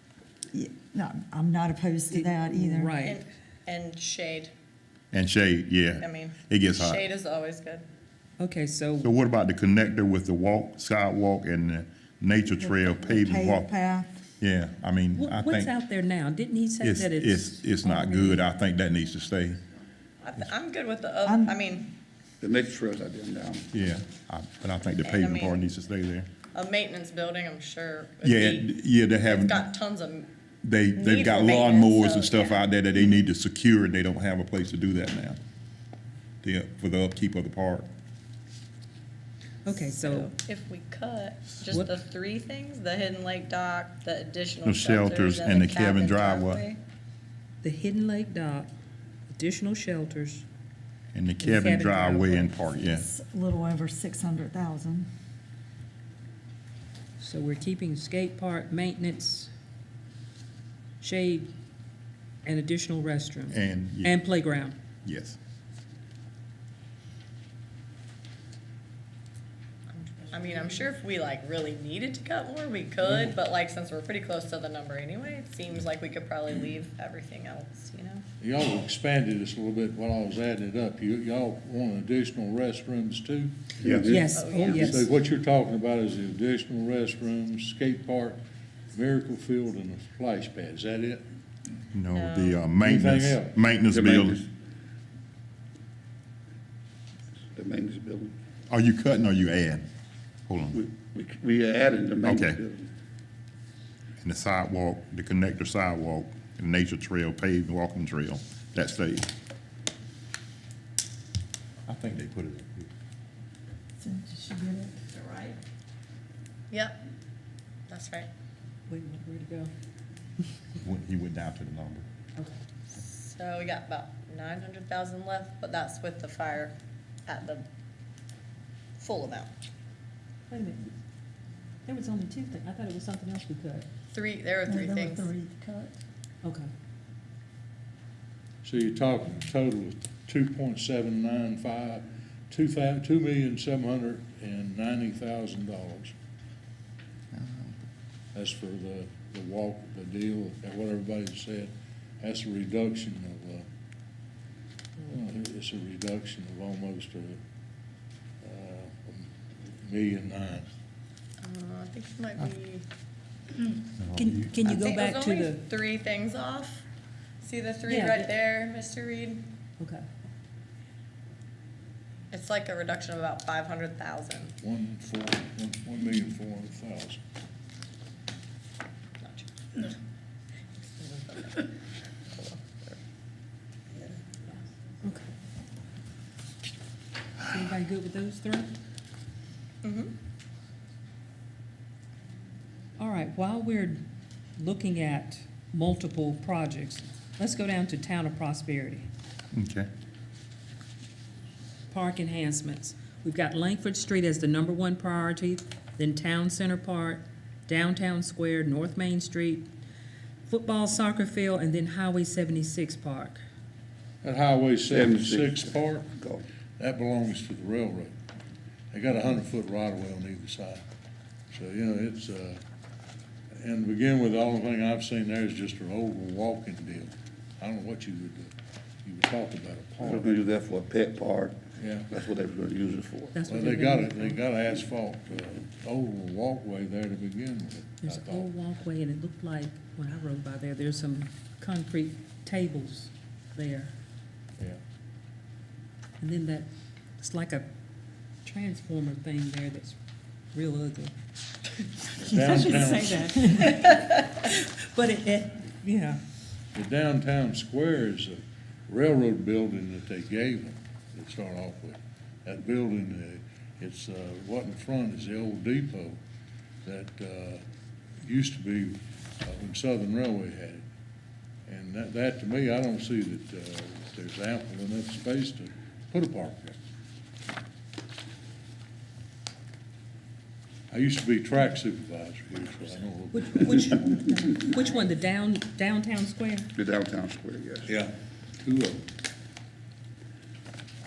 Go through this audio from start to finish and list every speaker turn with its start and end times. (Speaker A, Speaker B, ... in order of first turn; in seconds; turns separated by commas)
Speaker A: 0.5-3.0, Speaker B: 2.1-3.2, Speaker C: 3.0-4.5, Speaker D: 5.1-7.0, Speaker C: 6.0-7.8, Speaker B: 8.4-9.1, Speaker D: 9.0-13.7, Speaker A: 12.6-14.1, Speaker D: 14.4-15.7, Speaker B: 15.1-18.4, Speaker D: 16.8-19.6, Speaker C: 20.2-21.9, Speaker A: 21.2-21.6, Speaker E: 22.4-23.7, Speaker D: 23.7-26.3, Speaker C: 25.0-25.7, Speaker C: 26.5-30.3, Speaker D: 28.2-29.6, Speaker D: 30.6-35.4, Speaker C: 30.9-32.6, Speaker D: 36.4-37.9, Speaker B: 39.6-40.3, Speaker C: 39.7-46.8, Speaker D: 44.6-46.6, Speaker B: 47.6-48.7, Speaker B: 49.3-50.4, Speaker D: 51.1-53.0, Speaker B: 51.4-52.5, Speaker A: 52.9-55.1, Speaker B: 57.2-59.5, Speaker B: 61.0-61.5, Speaker B: 62.4-64.7, Speaker D: 63.5-64.2, Speaker D: 65.0-65.4, Speaker C: 69.9-78.2, Speaker F: 73.0-73.3, Speaker F: 78.4-88.4, Speaker E: 83.8-84.4, Speaker B: 84.0-85.0, Speaker C: 84.3-85.0, Speaker F: 88.9-91.2, Speaker D: 91.9-94.4, Speaker C: 92.1-92.6, Speaker F: 92.8-93.6, Speaker E: 93.9-94.4, Speaker E: 97.5-98.3, Speaker D: 98.7-99.8, Speaker D: 100.5-100.8, Speaker E: 100.7-102.9, Speaker D: 102.2-102.6, Speaker D: 104.2-109.3, Speaker D: 111.9-112.9, Speaker A: 114.0-115.5, Speaker C: 116.7-117.0, Speaker C: 117.9-118.3, Speaker B: 118.9-119.7, Speaker D: 120.8-122.0, Speaker C: 122.9-126.7, Speaker C: 127.3-127.6, Speaker C: 129.0-129.5, Speaker B: 130.5-130.9, Speaker B: 131.8-133.8, Speaker C: 134.1-135.3, Speaker A: 134.7-135.9, Speaker B: 136.4-136.7, Speaker F: 138.6-146.1, Speaker D: 147.3-147.8, Speaker F: 148.3-153.6, Speaker F: 155.1-157.4, Speaker F: 158.4-159.3, Speaker F: 159.8-160.7, Speaker C: 161.4-162.8, Speaker D: 164.0-164.5, Speaker B: 164.1-165.6, Speaker C: 164.7-166.8, Speaker C: 167.4-169.4, Speaker B: 167.9-168.3, Speaker B: 169.8-170.0, Speaker C: 172.3-174.5, Speaker F: 174.6-177.2, Speaker C: 179.2-180.0, Speaker C: 180.8-181.7, Speaker C: 182.3-183.0, Speaker B: 185.0-185.3, Speaker B: 187.4-188.7, Speaker C: 189.8-190.1, Speaker B: 193.0-194.0, Speaker B: 194.6-199.1, Speaker D: 199.5-199.9, Speaker B: 201.9-209.7, Speaker B: 210.5-213.4, Speaker F: 214.2-216.1, Speaker E: 214.8-216.4, Speaker F: 216.8-218.1, Speaker F: 218.9-220.8, Speaker F: 221.5-222.6, Speaker F: 223.6-228.5, Speaker F: 229.0-230.4, Speaker E: 230.0-233.4, Speaker F: 231.8-232.1, Speaker B: 233.3-234.4, Speaker F: 233.5-238.5, Speaker B: 238.0-243.9, Speaker B: 246.2-247.7, Speaker B: 248.4-249.9, Speaker B: 250.5-251.1, Speaker B: 252.0-256.2, Speaker F: 252.2-253.3, Speaker F: 256.7-266.2, Speaker F: 266.8-267.6, Speaker F: 268.2-270.8, Speaker F: 271.7-276.7, Speaker F: 280.9-283.9, Speaker B: 283.3-286.7, Speaker E: 286.8-288.0, Speaker F: 287.9-289.0